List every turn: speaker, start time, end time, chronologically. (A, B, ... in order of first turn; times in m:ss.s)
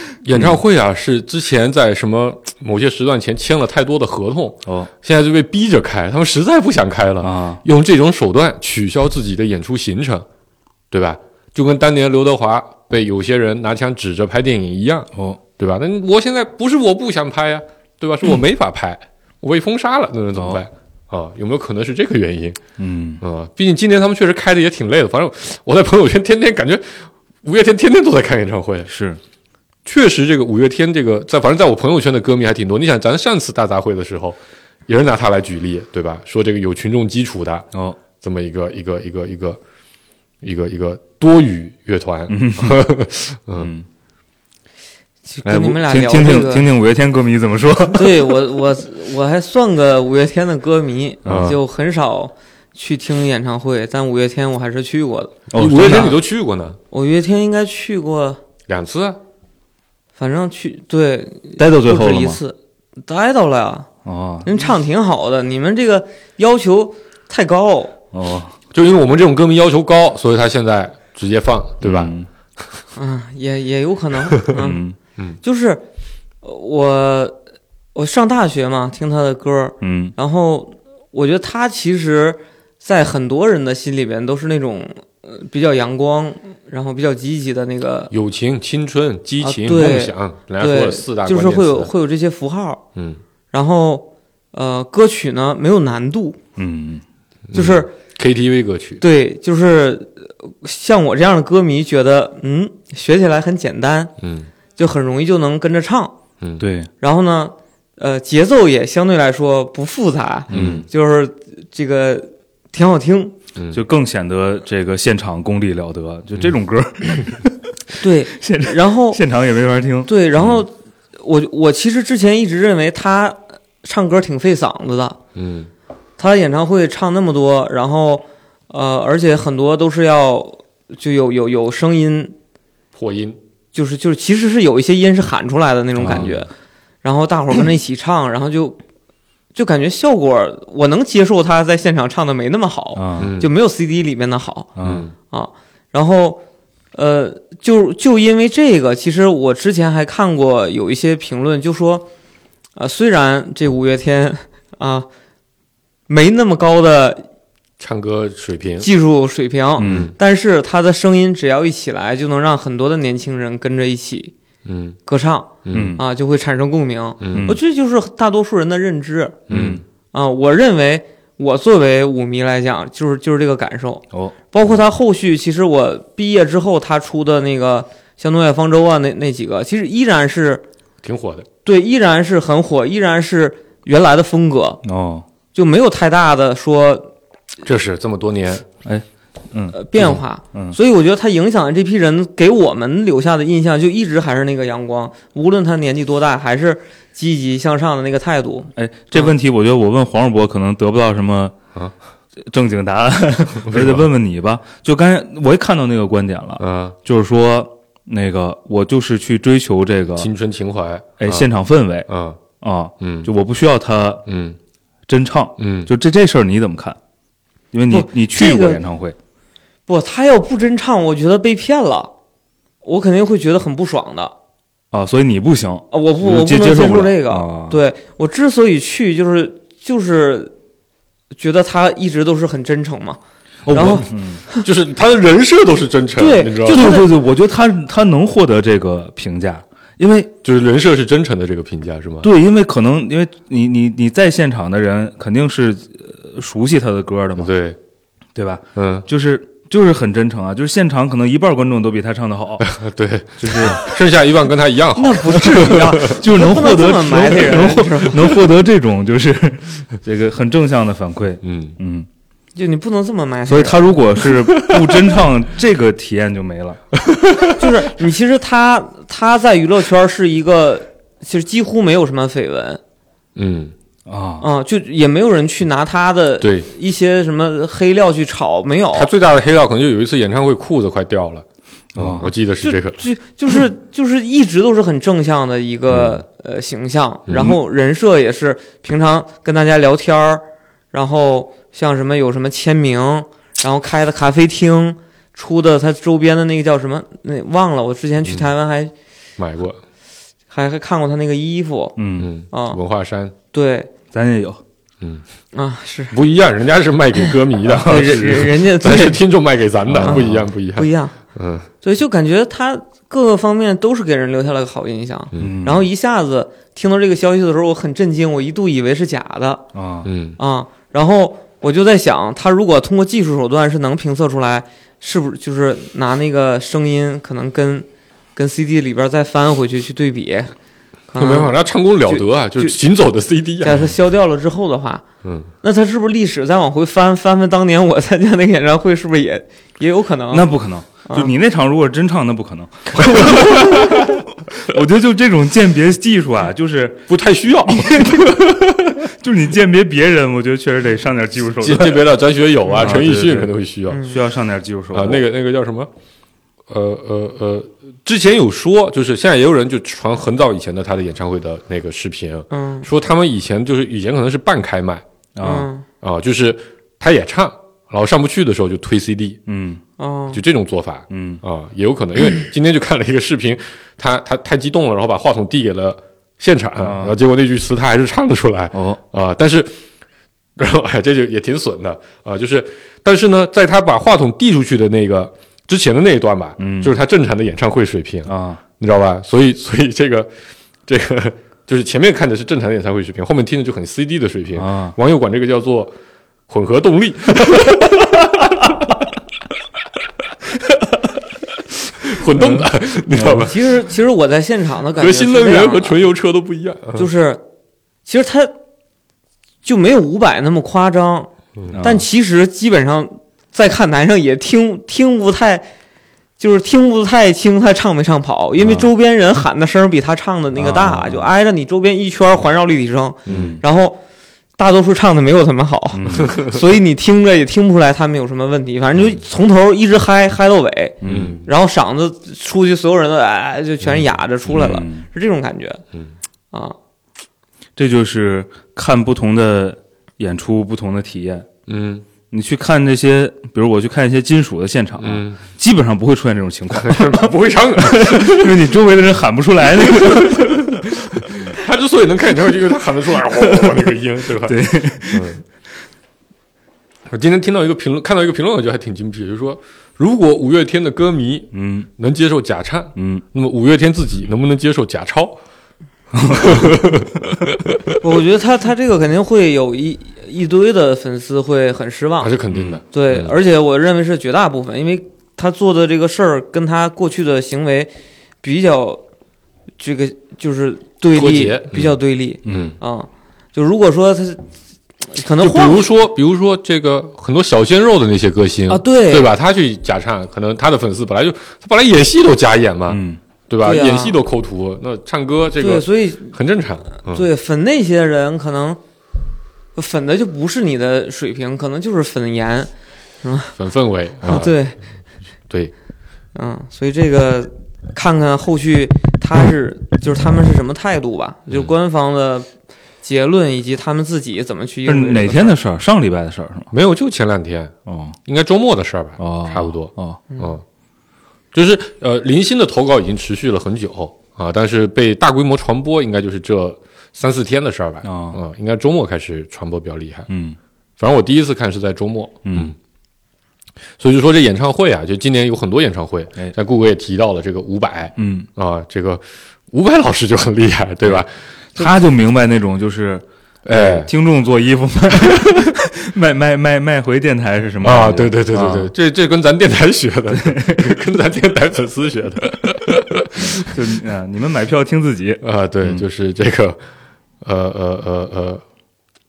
0:00.2-0:10.2 A
0:04.6-0:04.9 B
0:07.2-0:07.6 B
0:10.9-0:22.6 A
0:20.3-0:20.6 B
0:22.8-0:23.2 B
0:23.2-0:28.9 A
0:28.9-0:29.2 B
0:29.8-0:37.7 A
0:37.7-0:38.0 B
0:38.2-0:39.6 A
0:40.4-0:43.7 A
0:42.3-0:43.0 B
0:43.6-0:43.8 B
0:45.3-0:46.7 C
0:45.4-0:48.5 B
0:47.9-0:56.2 C
0:51.2-0:51.6 B
0:51.2-0:51.6 A
0:55.5-0:56.8 A
0:55.5-0:56.2 B
0:56.9-0:58.4 C
0:58.7-0:59.2 A
1:00.2-1:03.9 C
1:01.6-1:02.4 B
1:04.0-1:04.6 B
1:04.4-1:08.0 C
1:08.1-1:08.6 B
1:08.7-1:12.1 A
1:11.8-1:12.3 B
1:13.0-1:14.8 C
1:14.5-1:15.0 B
1:15.4-1:15.8 C
1:16.4-1:17.4 C
1:17.9-1:28.1 C
1:19.8-1:20.1 B
1:28.1-1:31.9 A
1:29.4-1:32.8 C
1:33.0-1:33.2 A
1:33.5-1:36.4 C
1:36.6-1:37.0 B
1:37.5-1:39.0 A
1:37.6-1:37.9 C
1:39.0-1:44.1 C
1:44.2-1:44.5 A
1:44.8-1:46.2 C
1:46.6-1:46.9 B
1:47.0-1:53.4 C
1:50.5-1:50.8 A
1:50.5-1:50.8 B
1:53.6-1:53.8 A
1:53.7-1:57.7 B
1:58.0-1:59.2 C
1:58.3-2:00.1 B
2:00.1-2:05.2 C
2:05.3-2:05.7 A
2:06.2-2:12.3 C
2:12.9-2:13.4 A
2:13.7-2:16.5 C
2:16.0-2:16.3 B
2:16.1-2:16.4 A
2:17.0-2:18.8 C
2:19.6-2:24.7 C
2:23.0-2:23.3 B
2:23.2-2:23.5 A
2:24.8-2:25.1 B
2:24.8-2:25.1 A
2:25.3-2:26.4 C
2:26.9-2:32.1 C
2:32.8-2:35.1 C
2:36.1-2:37.2 C
2:37.8-2:38.9 A
2:38.8-2:44.3 C
2:39.8-2:40.1 B
2:39.8-2:40.1 A
2:44.6-2:45.0 A
2:45.1-2:49.4 C
2:45.6-2:46.0 A
2:45.7-2:46.0 B
2:47.2-2:47.5 A
2:47.3-2:47.6 B
2:49.5-2:49.8 A
2:49.5-2:49.8 B
2:50.1-3:00.6 C
3:01.0-3:01.5 A
3:01.6-3:04.8 C
3:04.8-3:05.2 B
3:05.5-3:07.1 C
3:07.6-3:08.7 A
3:08.8-3:10.8 B
3:09.7-3:19.3 C
3:18.8-3:21.6 B
3:22.4-3:30.3 B
3:23.7-3:24.0 A
3:26.6-3:27.0 A
3:30.2-3:31.5 A
3:31.2-3:32.1 B
3:32.1-3:32.4 A
3:32.6-3:34.2 B
3:33.0-3:33.3 A
3:34.2-3:34.6 A
3:35.1-3:37.0 B
3:35.6-3:35.9 A
3:37.7-3:39.2 B
3:37.9-3:38.8 C
3:39.9-3:42.1 C
3:42.8-3:44.3 C
3:44.9-3:47.8 B
3:45.9-3:50.5 C
3:51.3-3:53.2 C
3:53.7-3:54.4 B
3:53.7-3:54.6 C
3:53.7-3:54.0 A
3:54.6-3:57.0 A
3:56.2-3:57.1 C
3:56.6-4:00.3 B
4:00.4-4:02.3 A
4:02.2-4:07.5 B
4:07.4-4:07.8 A
4:08.3-4:12.7 B
4:08.7-4:09.1 A
4:12.6-4:16.2 A
4:13.4-4:13.9 B
4:15.0-4:18.3 C
4:15.5-4:22.1 B
4:21.4-4:21.8 A
4:22.6-4:23.9 C
4:23.5-4:26.8 B
4:24.6-4:24.9 A
4:27.1-4:27.5 A
4:27.5-4:32.8 C
4:33.4-4:33.7 A
4:34.1-4:34.4 B
4:34.4-4:39.1 C
4:36.4-4:36.7 A
4:38.9-4:43.0 A
4:42.0-4:42.3 B
4:42.6-4:58.9 C
4:45.9-4:46.2 A
4:47.3-4:47.6 A
4:59.4-4:59.8 A
5:00.5-5:02.0 C
5:02.0-5:02.3 B
5:02.2-5:03.3 A
5:02.5-5:02.8 C
5:03.5-5:03.9 C
5:04.1-5:04.6 B
5:05.5-5:06.2 C
5:06.1-5:11.7 A
5:07.7-5:08.5 B
5:07.7-5:09.2 C
5:09.9-5:10.5 B
5:10.0-5:11.2 C
5:11.8-5:19.6 C
5:15.3-5:15.6 A
5:15.4-5:15.8 B
5:19.7-5:20.1 B
5:20.0-5:20.4 A
5:20.4-5:30.5 C
5:31.1-5:31.5 C
5:31.2-5:33.9 A
5:32.0-5:32.8 C
5:33.6-5:35.0 C
5:35.2-5:35.5 A
5:35.6-5:40.5 C
5:40.3-5:47.1 B
5:43.1-5:44.0 A
5:47.1-5:49.0 A
5:47.7-5:52.1 B
5:51.6-5:54.0 A
5:52.7-5:52.9 C
5:52.7-5:55.2 B
5:53.9-5:54.2 C
5:54.9-5:55.9 A
5:56.7-6:05.0 A
6:02.5-6:02.9 C
6:05.4-6:05.7 B
6:05.4-6:05.8 C
6:06.0-6:09.4 A
6:09.5-6:09.8 B
6:10.0-6:10.4 C
6:10.3-6:19.8 A
6:11.1-6:11.4 B
6:16.8-6:17.1 B
6:18.7-6:19.0 B
6:20.6-6:30.3 A
6:26.6-6:26.9 B
6:28.3-6:28.6 B
6:30.9-6:35.9 A
6:34.6-6:35.0 B
6:36.5-6:38.9 A
6:42.0-6:43.6 A
6:42.3-6:43.5 B
6:43.3-6:46.0 C
6:45.0-6:47.1 A
6:47.0-6:47.4 C
6:48.0-6:48.6 C
6:49.6-6:55.7 C
6:51.7-6:52.0 B
6:56.4-7:04.0 C
6:58.6-6:58.9 B
7:00.6-7:01.3 B
7:03.3-7:03.6 A
7:03.3-7:03.6 B
7:04.6-7:15.8 C
7:05.9-7:06.4 B
7:11.0-7:11.4 B
7:11.0-7:11.4 A
7:14.4-7:15.1 B
7:17.8-7:21.5 B
7:21.7-7:22.1 A
7:22.3-7:31.5 B
7:25.0-7:25.4 A
7:26.7-7:28.6 A
7:29.8-7:35.4 A
7:33.6-7:33.9 B
7:34.4-7:35.4 B
7:37.1-7:45.4 A
7:41.5-7:41.9 B
7:43.0-7:43.2 B
7:46.1-7:46.7 B
7:46.3-7:48.0 A
7:48.0-7:52.3 C
7:52.2-7:53.4 A
7:52.5-7:52.8 B
7:52.9-7:59.0 C
7:59.8-8:04.4 C
8:01.1-8:02.8 A
8:02.4-8:02.7 B
8:05.1-8:05.8 C
8:05.4-8:17.2 A
8:08.7-8:09.3 C
8:12.9-8:13.2 B
8:13.6-8:14.2 C
8:15.6-8:16.4 C
8:17.0-8:18.8 C
8:19.8-8:22.7 C
8:23.2-8:23.6 C
8:23.6-8:24.6 A
8:24.2-8:24.8 C
8:26.3-8:32.5 C
8:33.0-8:35.6 C
8:34.9-8:36.7 B
8:36.7-8:37.7 A
8:37.9-8:38.2 B
8:38.2-8:40.6 A
8:39.2-8:40.2 B
8:41.5-8:50.3 A
8:48.0-8:48.4 B
8:50.3-8:50.6 B
8:51.0-8:52.7 A
8:52.4-8:52.7 B
8:54.0-9:01.9 A
8:58.2-8:58.5 B
9:01.7-9:08.9 B
9:03.6-9:04.1 A
9:05.2-9:05.7 A
9:07.8-9:13.7 A
9:10.3-9:11.0 B
9:13.5-9:16.0 B
9:15.4-9:16.8 A
9:17.4-9:18.6 A